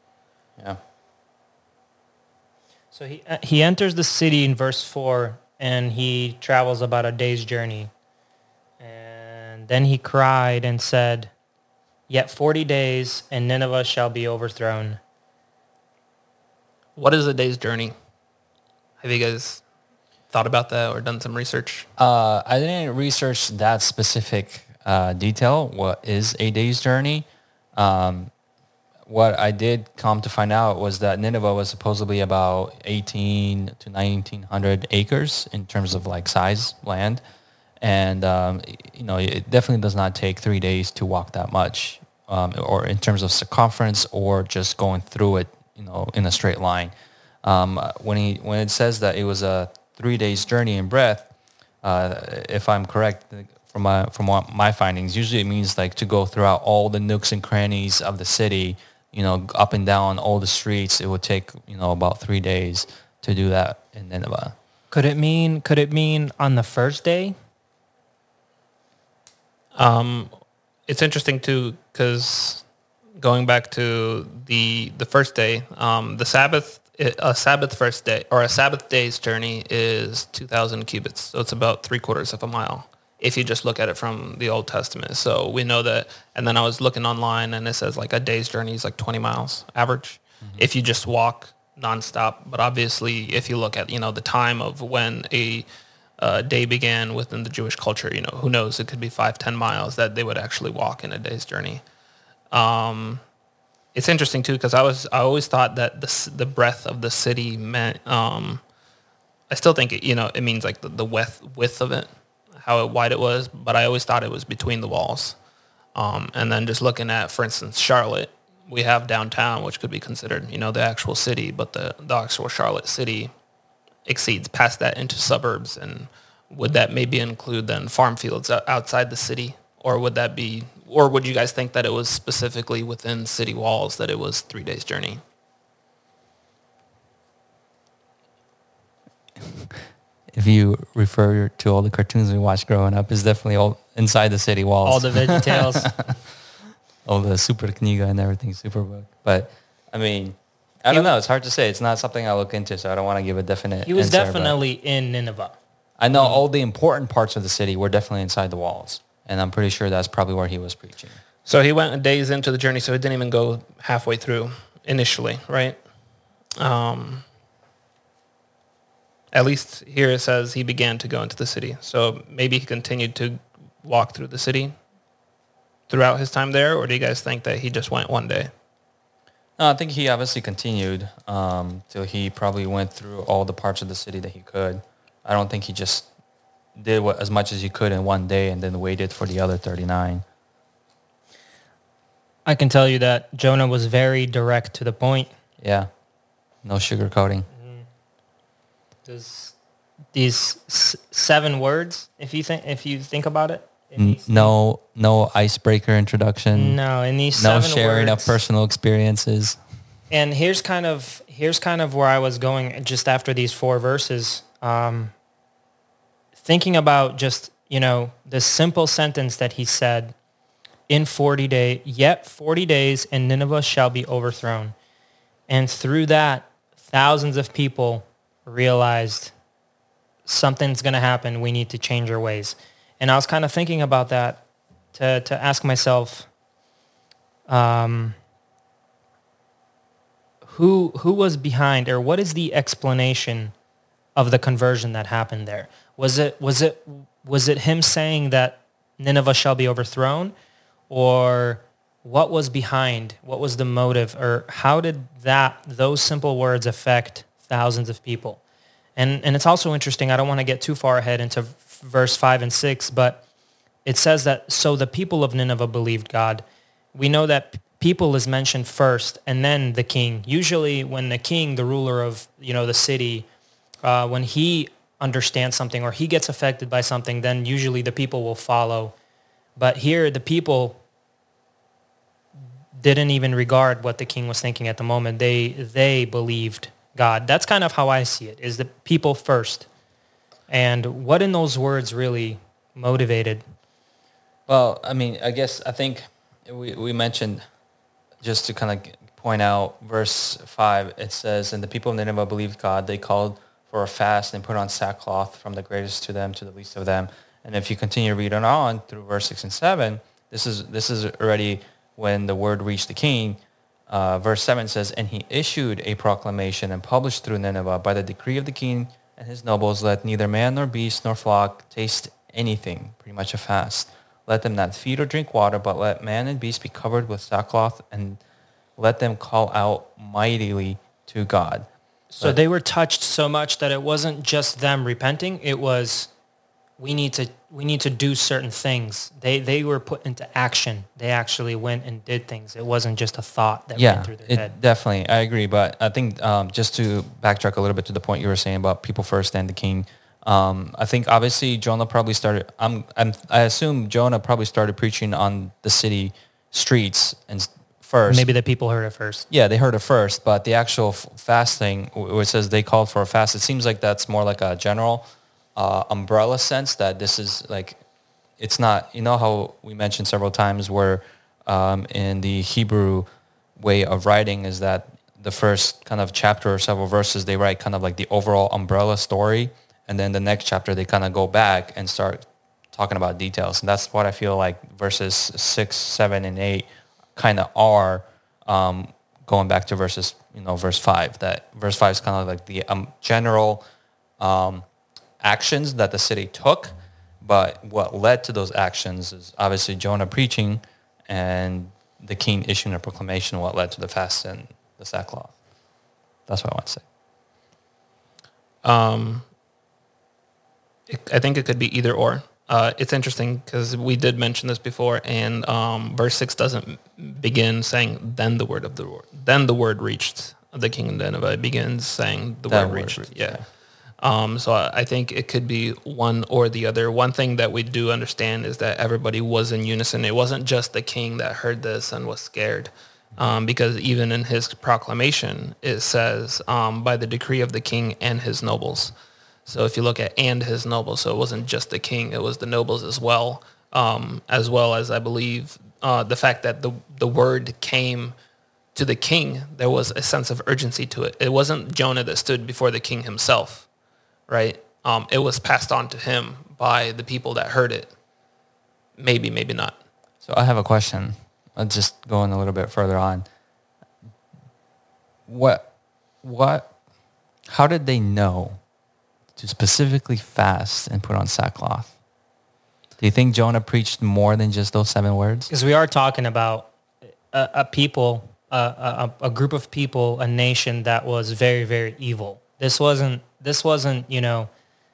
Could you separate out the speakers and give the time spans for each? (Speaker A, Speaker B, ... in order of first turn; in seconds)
Speaker A: 2.9-7.9, 8.8-11.3, 12.1-15.0, 64.9-67.3, 144.8-145.9, 153.8-155.6, 192.4-195.3, 197.6-197.8, 199.1-199.5, 200.1-204.5, 206.5-208.4, 210.1-215.1, 216.4-220.1, 220.9-224.7, 225.5-229.3, 230.2-234.4, 234.9-236.3, 237.5-238.2, 240.4-243.5, 244.2-250.3, 250.9-258.4, 258.9-263.2, 263.8-266.4, 266.9-273.3, 273.8-278.9, 279.6-280.8, 282.7-289.7, 290.5-293.4, 332.1-336.1, 336.8-344.5, 358.1-359.2, 475.5-476.7, 477.3-484.5
Speaker B: 16.9-17.9, 19.0-19.6, 20.3-21.9, 69.7-70.3, 70.9-72.6, 73.2-95.7, 96.2-101.8, 102.5-103.2, 103.9-108.6, 109.5-115.4, 115.9-123.3, 124.0-135.2, 161.4-165.8, 166.6-167.2, 169.3-174.7, 175.9-178.5, 408.6-409.2, 410.9-423.4, 424.0-438.9, 439.5-448.1, 448.7-453.7, 454.3-457.9, 459.0-459.8
Speaker C: 22.0-28.3, 29.1-37.2, 37.8-46.9, 47.4-51.3, 51.8-64.5, 139.4-146.2, 147.0-154.6, 156.0-161.2, 179.6-186.1, 186.8-190.2, 195.6-195.9, 196.6-197.5, 203.9-206.8, 207.4-209.6, 294.5-297.4, 298.2-328.2, 328.8-331.7, 343.7-358.3, 359.3-367.8, 368.4-393.6, 394.2-394.6, 395.2-405.3, 406.3-406.8, 422.5-423.4, 460.2-463.2, 465.3-465.7, 466.2-466.7, 467.5-468.6, 469.4-471.9, 473.0-475.5